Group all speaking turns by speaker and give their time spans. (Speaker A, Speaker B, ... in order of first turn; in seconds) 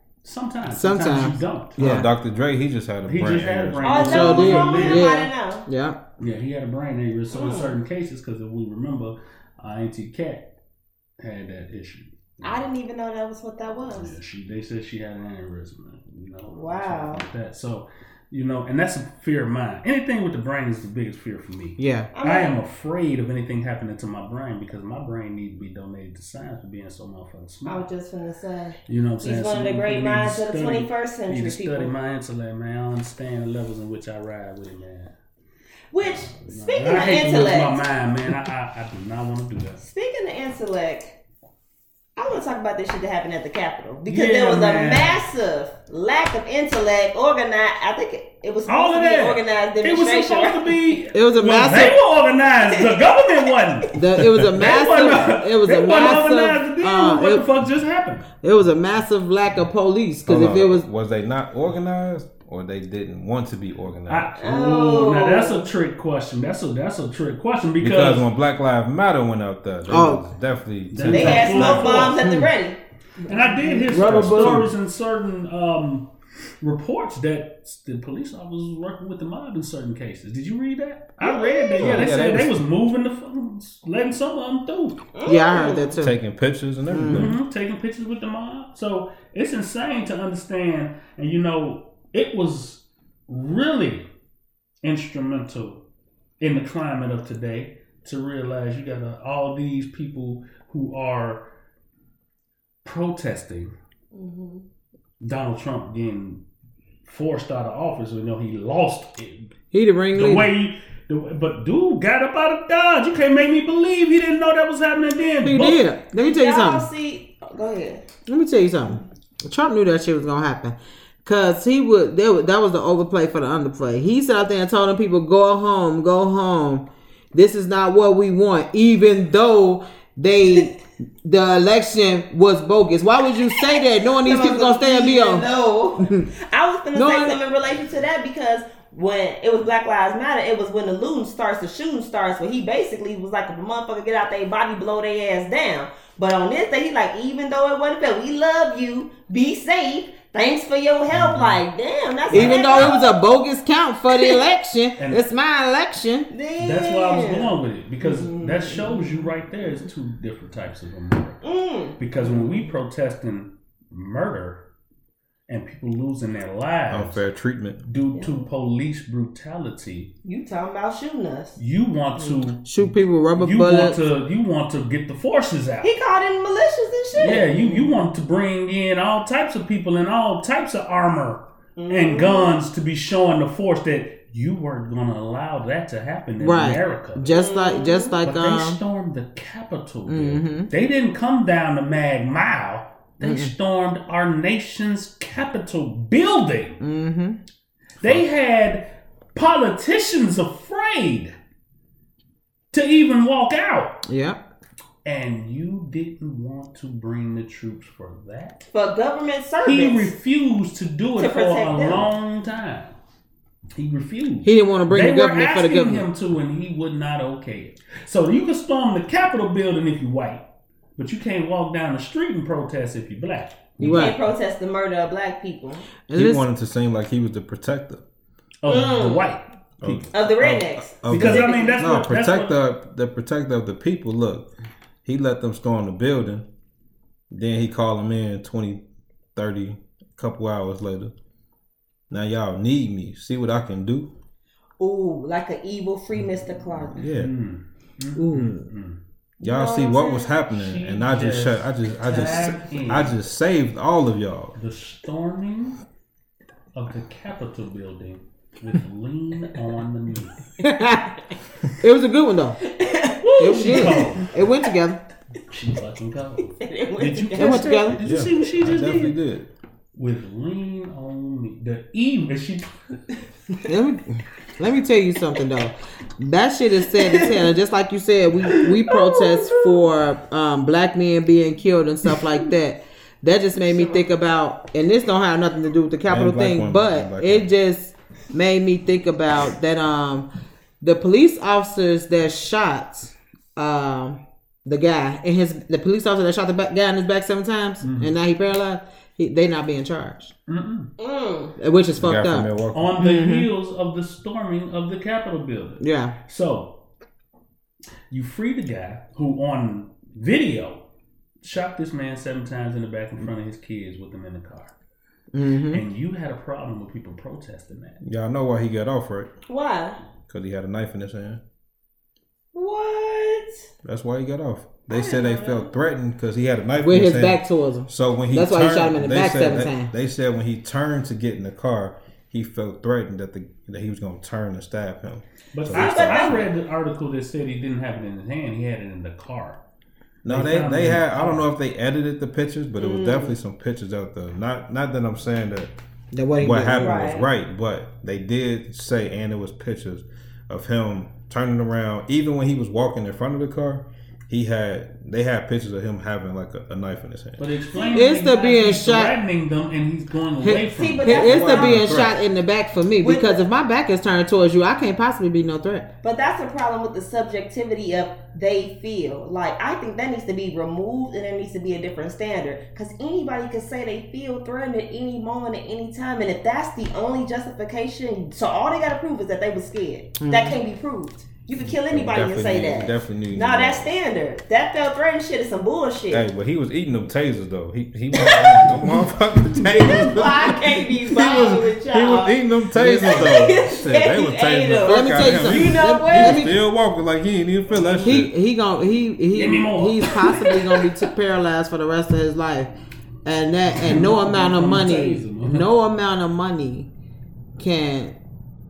Speaker A: 0.2-1.9, 3.1-5.1, 6.2-10.5, 11.2-12.7, 13.9-27.9, 28.9-35.1, 36.0-39.8, 44.0-45.2, 48.7-58.3, 64.1-68.2, 70.9-72.2, 73.2-76.1, 76.6-85.0, 87.1-94.1, 94.8-95.8, 96.4-101.5, 102.8-103.7, 105.2-106.4, 107.0-109.5, 110.1-115.8, 151.1-151.6, 152.3-152.9, 155.0-155.2, 156.6-161.4, 162.0-164.6, 165.5-167.2, 167.8-170.1, 171.6-175.9, 177.1-187.3, 188.2-196.8, 198.0-201.3, 202.7-204.0, 205.0-208.7, 209.6-213.0, 213.8-220.4, 221.0-224.1, 228.6-230.1, 231.1-232.5, 247.2-249.0, 250.5-253.1, 254.6-255.8, 256.7-260.4, 263.2-264.3, 265.5-269.2, 269.9-273.0, 297.8-298.1, 300.5-300.9, 302.7-306.8, 308.1-310.8, 311.4-314.7, 315.7-318.0, 335.5-339.6, 340.2-341.4, 357.4-361.3, 399.3-400.3, 403.8-405.6
Speaker B: 0.7-2.1, 4.0-6.0, 21.8-22.1, 51.1-52.0, 53.9-57.4, 58.4-60.8, 69.9-70.2, 72.2-72.5, 73.6-74.7, 85.2-86.2, 86.9-87.3, 109.7-110.5, 115.4-116.9, 118.3-135.5, 136.0-136.3, 136.9-137.4, 152.3-156.3, 172.6-174.0, 186.4-188.8, 190.1-190.7, 193.2-193.5, 196.8-197.4, 204.1-204.4, 214.4-216.1, 223.8-224.1, 226.1-226.4, 248.2-248.7, 260.6-261.1, 261.8-262.6, 263.4-265.0, 267.4-268.0, 273.6-290.2, 290.8-300.3, 301.6-303.5, 305.8-306.1, 315.3-315.8, 326.8-329.9, 346.1-347.0, 357.9-359.1, 360.4-365.9, 380.2-380.6, 392.7-393.4, 394.8-396.6, 398.0-402.7, 403.2-406.9, 407.6-408.1
Speaker C: 1.8-4.7, 60.2-64.3, 67.8-72.2, 73.9-74.7, 81.8-82.6, 86.0-87.4, 166.9-167.8, 226.1-228.0, 229.8-234.5, 235.0-236.4, 237.3-238.8, 239.3-241.1, 242.1-244.1, 246.9-247.3, 249.4-254.5, 268.0-269.5, 286.1-287.5, 302.0-302.9, 318.0-319.3, 320.3-321.4, 323.8-336.5, 340.2-345.7, 346.4-357.5, 361.1-362.2, 381.7-383.9, 386.1-398.3
Speaker D: 3.8-5.6, 7.3-7.8, 12.4-14.2, 16.5-17.2, 22.1-22.5, 27.6-31.9, 35.9-37.8, 39.8-41.2, 42.1-50.7, 64.4-65.7, 71.1-72.8, 81.2-82.3, 85.1-86.0, 104.1-104.6, 116.1-118.1, 134.2-153.2, 154.1-154.4, 156.3-159.3, 161.4-162.6, 170.2-171.6, 175.8-177.9, 181.8-182.5, 187.3-188.2, 208.7-210.1, 211.2-212.1, 223.8-225.9, 228.7-229.2, 230.1-231.8, 244.8-247.0, 249.4-250.4, 262.6-264.1, 266.6-267.9, 276.9-277.5, 278.5-279.9, 283.6-284.0, 301.0-301.5, 319.5-320.0, 322.5-323.6, 324.9-325.7, 335.7-336.4, 342.8-343.3, 346.8-347.3, 360.5-361.9, 363.0-363.4, 366.0-386.2, 388.1-389.1, 389.6-396.5, 397.7-398.2, 400.1-401.1